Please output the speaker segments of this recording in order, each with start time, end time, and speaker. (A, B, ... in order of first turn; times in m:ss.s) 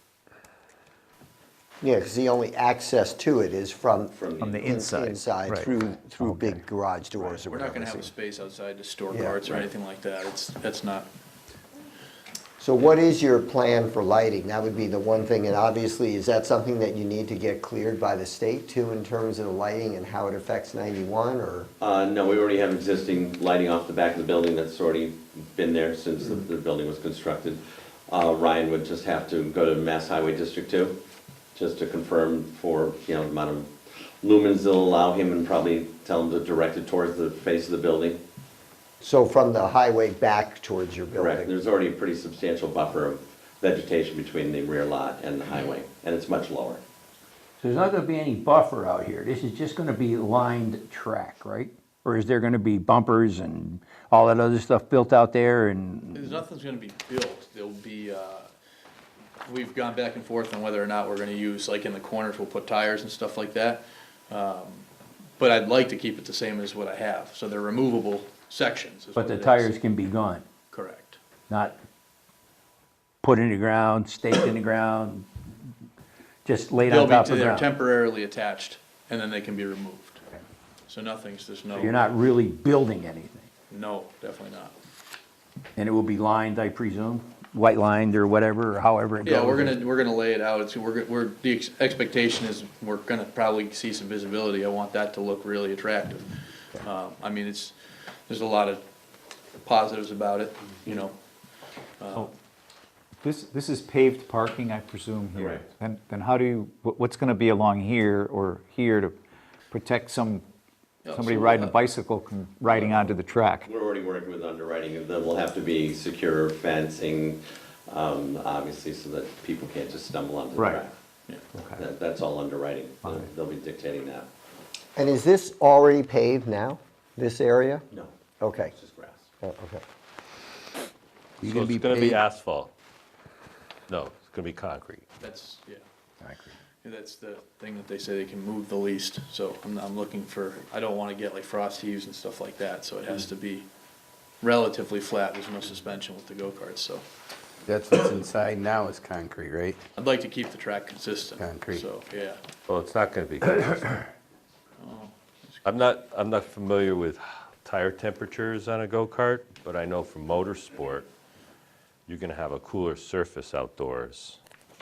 0:01.8-0:08.1 A
0:04.1-0:04.8 B
0:04.4-0:06.6 C
0:07.2-0:11.1 D
0:09.1-0:09.4 A
0:12.6-0:21.7 A
0:21.8-0:31.0 B
0:31.5-0:38.2 B
0:39.0-0:41.5 A
0:41.1-0:46.8 B
0:47.6-0:56.4 E
0:56.1-0:58.5 D
0:59.4-1:04.9 D
1:05.4-1:09.7 D
1:09.1-1:10.4 E
1:10.7-1:11.2 D
1:11.5-1:11.8 E
1:13.2-1:15.3 E
1:16.4-1:17.7 E
1:16.8-1:20.2 D
1:20.9-1:22.0 D
1:21.7-1:23.5 E
1:23.7-1:24.7 D
1:25.8-1:29.8 E
1:29.2-1:36.3 D
1:36.8-1:37.7 D
1:38.3-1:38.8 D
1:39.6-1:41.1 D
1:42.0-1:42.3 D
1:43.2-1:49.1 C
1:45.4-1:45.6 B
1:49.7-1:50.4 C
1:51.0-1:51.8 D
1:51.1-1:53.7 C
1:52.7-2:00.9 B
2:00.6-2:00.8 C
2:01.5-2:01.8 C
2:01.7-2:04.3 B
2:05.0-2:07.8 A
2:07.9-2:09.3 B
2:08.4-2:08.7 A
2:09.4-2:09.8 A
2:11.4-2:12.2 E
2:11.4-2:12.7 F
2:13.9-2:15.0 F
2:15.2-2:15.8 D
2:16.2-2:16.5 E
2:16.8-2:23.6 D
2:24.4-2:27.0 D
2:27.6-2:29.8 G
2:30.0-2:32.4 D
2:31.4-2:31.8 G
2:32.7-2:34.1 F
2:34.8-2:35.6 D
2:35.6-2:41.1 F
2:42.1-2:44.4 F